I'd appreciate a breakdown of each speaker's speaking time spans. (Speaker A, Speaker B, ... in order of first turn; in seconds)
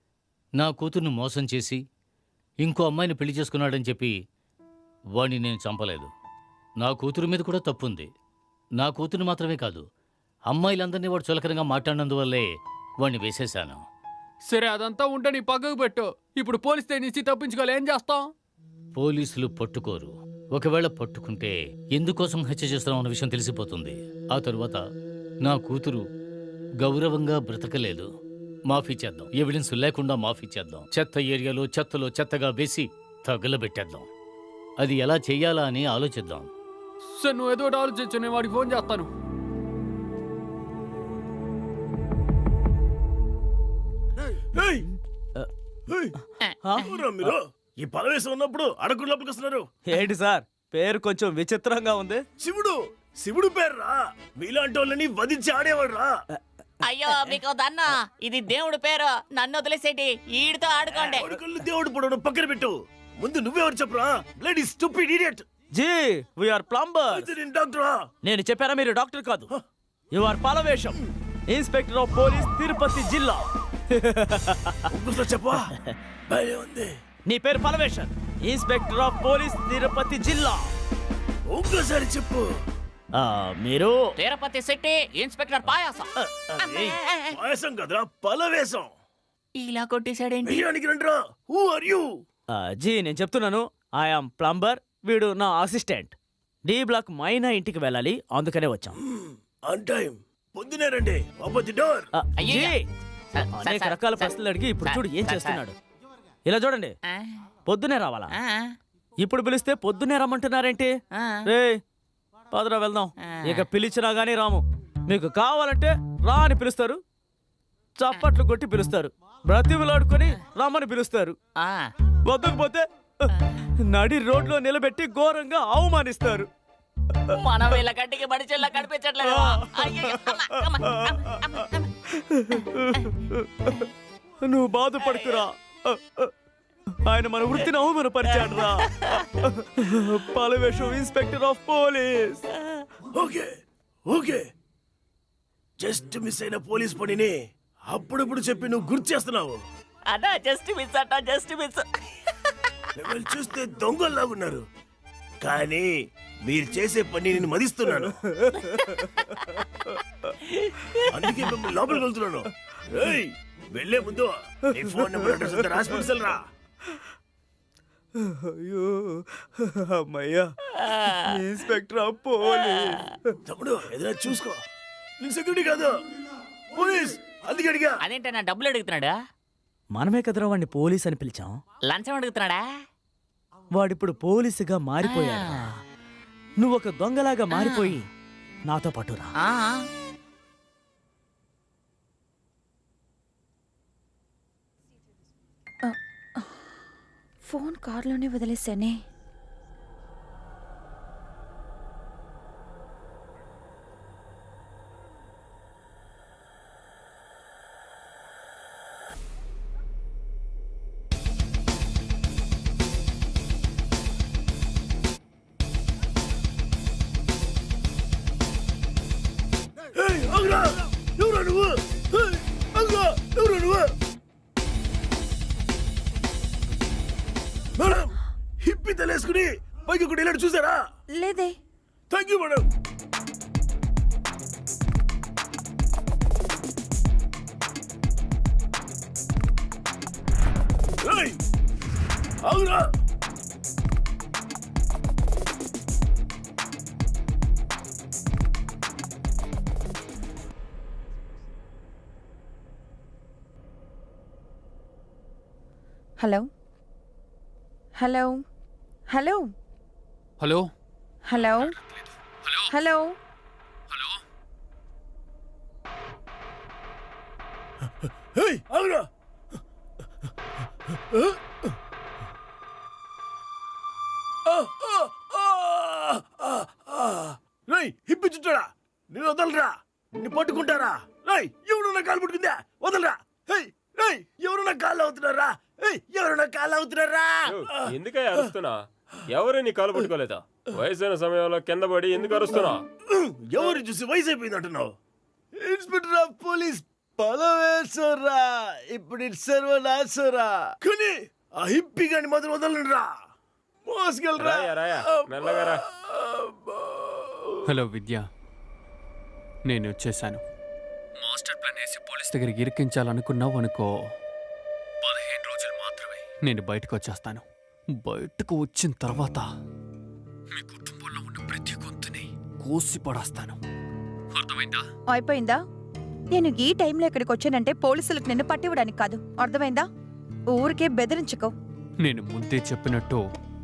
Speaker A: 0.6-1.8, 2.6-4.2, 5.2-6.1, 6.8-8.1, 8.8-9.8, 10.5-12.5, 13.0-13.8, 18.9-24.8, 25.4-26.0, 26.8-28.1, 28.7-34.1, 34.8-36.5
Speaker B: 14.5-18.3, 37.1-39.1, 260.4-260.7, 263.9-264.2, 307.7-308.2, 309.7-310.4, 311.2-313.9, 315.0-317.4, 318.0-319.4, 320.5-323.6, 324.4-324.8, 332.1-333.2
Speaker C: 44.5-44.9, 45.9-46.1, 46.8-49.7, 52.4-56.1, 60.9-65.4, 67.1-68.0, 74.9-75.7, 76.3-76.9, 81.5-82.4, 87.3-88.9, 90.4-92.0, 99.0-102.1, 143.1-143.5, 144.1-144.4, 145.8-147.3, 147.9-149.6, 153.0-154.6, 155.4-155.9, 156.4-158.2, 161.1-166.4, 173.5-174.6, 175.2-175.9, 176.7-178.0, 219.9-223.9, 227.8-230.8, 232.1-232.7, 241.0-241.4, 242.4-242.9, 268.0-269.1, 271.1-271.4, 274.5-288.4, 293.1-294.9, 295.6-303.1, 303.9-304.7, 305.3-306.1
Speaker D: 46.4-46.8, 56.8-61.3, 84.2-86.1, 86.6-87.2, 89.6-90.6, 102.4-102.7, 103.3-105.6, 108.3-108.7, 111.1-111.4, 113.2-113.7, 121.6-121.9, 127.3-131.9, 135.0-135.4, 138.3-138.7, 150.1-151.8, 158.6-159.6, 160.6-161.4, 170.8-171.2, 178.0-179.1, 181.9-182.6, 185.0-185.7, 187.5-187.9, 189.4-189.8
Speaker E: 49.9-52.2, 57.1-57.4, 65.7-67.3, 68.2-69.5, 70.1-74.8, 77.3-80.6, 83.1-84.0, 86.2-87.0, 92.5-99.0, 102.1-102.9, 103.5-105.8, 106.5-106.9, 107.7-108.3, 109.2-110.9, 111.4-111.8, 112.5-117.0, 118.0-121.4, 122.2-126.5, 127.3-127.8, 129.2-133.9, 134.4-136.3, 137.0-142.4, 158.4-159.3, 164.7-166.0, 168.2-170.5, 171.0-173.3, 179.9-181.6, 183.7-185.8, 186.6-188.1, 188.7-189.3
Speaker F: 195.8-196.5, 197.4-199.0, 231.2-231.5, 256.2-256.5, 258.0-258.4, 259.1-259.4, 261.3-261.7, 262.7-263.1, 325.1-325.6, 326.3-329.9, 330.5-331.5
Speaker G: 287.5-292.8, 304.4-305.8